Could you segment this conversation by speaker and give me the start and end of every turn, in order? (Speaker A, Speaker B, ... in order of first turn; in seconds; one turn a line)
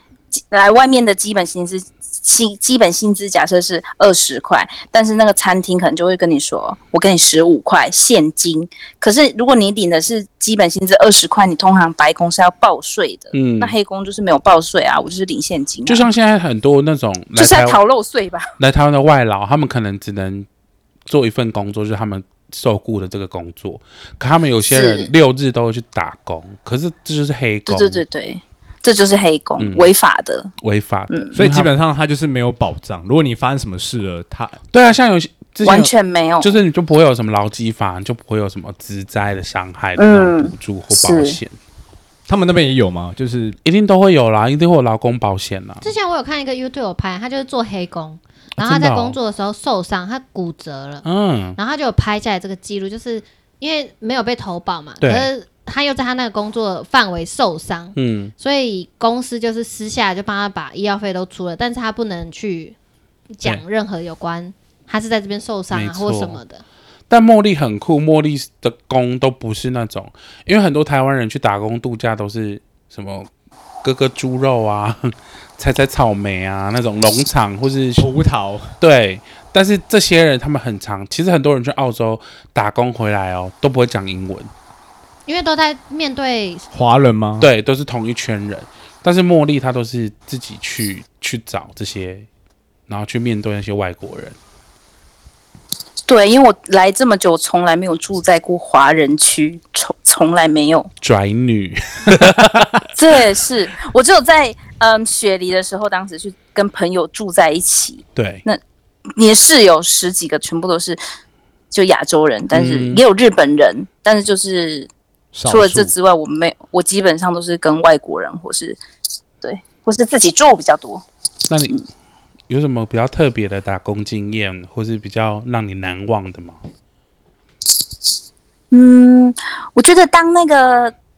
Speaker A: 0.3-16.1
Speaker B: 13.3-13.7
Speaker B: 15.9-17.8
Speaker A: 17.4-18.5
Speaker B: 18.6-20.5
Speaker B: 21.1-28.0
Speaker A: 24.7-25.1
Speaker A: 27.7-30.5
Speaker B: 29.6-29.9
Speaker B: 30.6-31.7
Speaker C: 31.3-34.6
Speaker B: 34.7-41.6
Speaker A: 35.6-36.5
Speaker A: 40.0-41.4
Speaker C: 42.3-43.6
Speaker B: 43.6-45.9
Speaker D: 45.8-51.0
Speaker B: 48.6-49.1
Speaker B: 51.0-51.6
Speaker D: 51.5-62.8
Speaker B: 55.0-55.3
Speaker B: 57.9-58.3
Speaker D: 63.3-66.6
Speaker B: 65.7-66.4
Speaker B: 67.1-73.3
Speaker B: 73.8-78.1
Speaker C: 78.0-78.7
Speaker B: 78.8-84.5
Speaker D: 85.2-86.6
Speaker C: 86.7-87.5
Speaker B: 87.4-92.3
Speaker B: 92.9-94.3
Speaker A: 96.1-100.9
Speaker B: 101.0-102.8
Speaker A: 102.9-108.6
Speaker B: 108.2-108.4
Speaker A: 109.2-111.0
Speaker A: 111.7-114.9
Speaker B: 112.5-113.0
Speaker C: 115.3-115.9
Speaker A: 115.5-118.8
Speaker A: 119.4-121.0
Speaker B: 121.5-121.8
Speaker B: 122.5-126.6
Speaker A: 128.7-130.9